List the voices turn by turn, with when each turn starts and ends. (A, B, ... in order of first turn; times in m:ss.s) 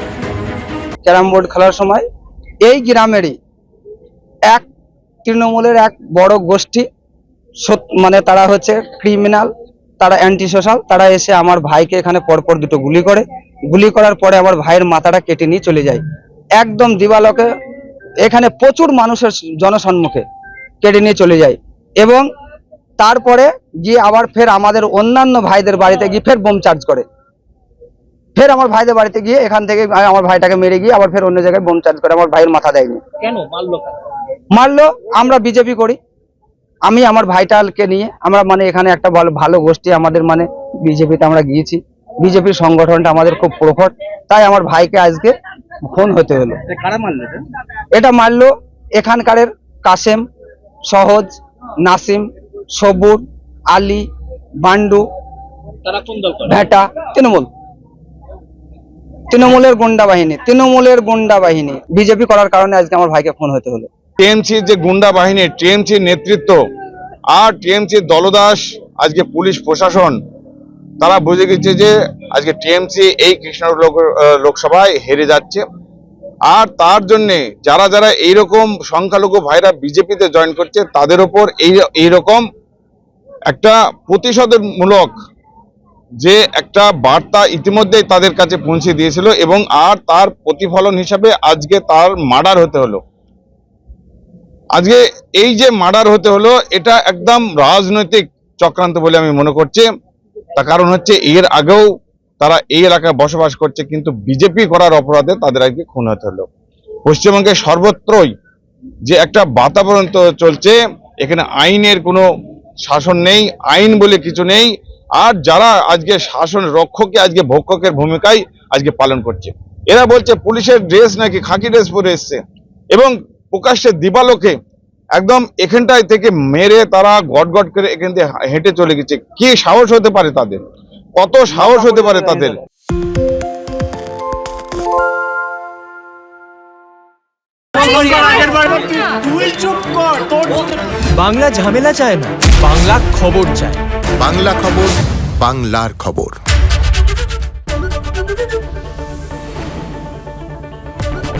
0:01.0-0:02.0 A
0:02.6-0:03.4 A
0:05.2-0:06.8 A
0:07.6-0:16.0 A
0:16.6-0:17.5 A
0:18.2-0:20.2 A
0:20.8-0:22.3 A
0:23.0-0:27.0 A
0:28.4-0:33.0 A
0:33.2-0:34.0 B
0:34.5-0:36.0 A
0:36.9-0:45.4 A
0:45.9-0:46.9 A
0:46.9-0:47.4 B
0:48.0-0:50.2 A
0:50.9-0:51.3 A
0:51.8-0:53.2 A
0:53.7-0:54.0 A
0:54.6-0:55.0 A
0:55.9-0:56.4 B
0:56.4-0:57.5 A
0:59.3-1:03.9 A
1:04.2-1:06.6 C
1:07.4-1:10.2 C
1:11.0-1:15.6 C
1:16.5-1:22.4 C
1:23.5-1:25.1 C
1:26.2-1:33.0 C
1:34.8-1:39.9 C
1:40.6-1:41.8 C
1:42.4-1:46.5 C
1:47.1-1:48.3 C
1:49.1-1:52.2 C
1:52.9-2:02.4 C
2:02.9-2:04.6 C
2:05.2-2:10.6 C
2:11.2-2:12.6 C
2:11.6-2:12.6 A
2:17.8-2:18.5 D
2:19.1-2:23.8 D
2:24.2-2:26.4 E